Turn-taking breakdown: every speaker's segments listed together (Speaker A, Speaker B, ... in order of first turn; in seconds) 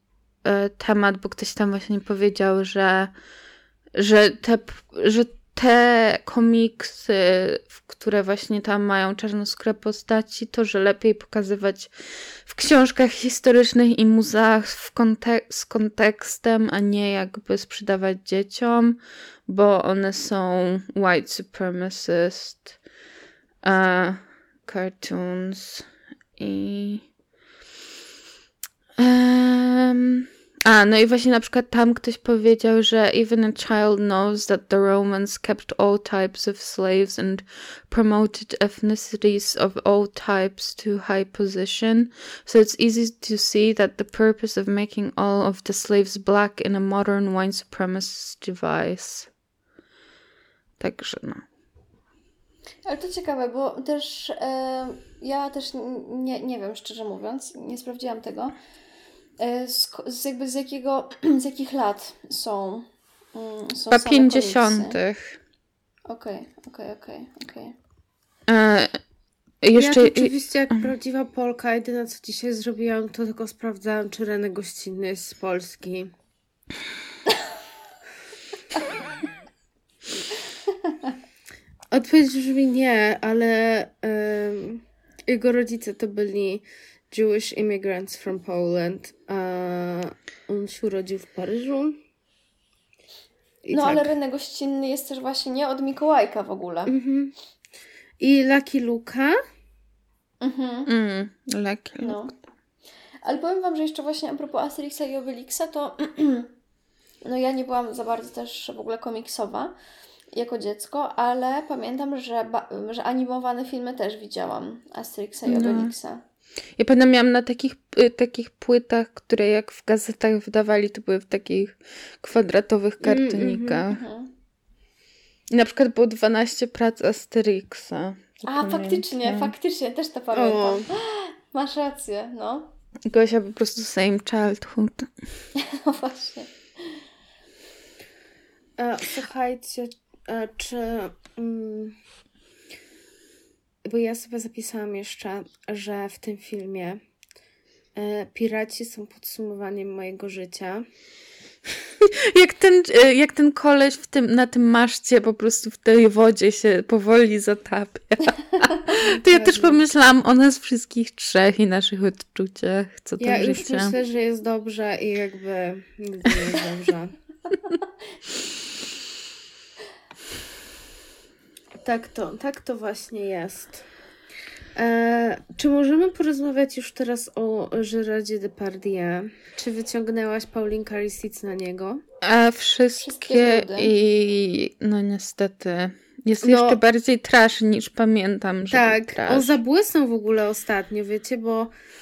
Speaker A: 0.4-3.1, 4.0-11.9, 12.4-22.7, 23.6-25.9, 26.4-27.1, 29.0-49.3, 50.8-51.4, 63.9-65.4, 68.5-69.0, 69.6-70.3, 100.9-102.3, 115.5-115.9, 116.8-124.0, 125.5-129.5, 133.1-135.1, 152.0-163.9, 182.2-189.6
Speaker B: 52.9-58.6, 59.4-65.0, 66.1-67.7, 93.7-96.9, 100.4-100.9, 102.0-102.3, 103.2-106.5, 107.2-109.8, 110.3-116.2, 123.9-124.3, 128.5-132.7, 135.6-136.5, 183.0-183.9
Speaker C: 69.8-76.1, 81.9-92.0, 93.7-94.1, 96.9-97.3, 98.2-99.4, 123.0-123.8, 130.3-130.9, 138.8-142.0, 143.8-147.0, 148.0-150.8, 159.0-159.8, 163.2-167.1, 171.8-173.8, 174.8-182.0, 186.4-186.8, 188.7-191.7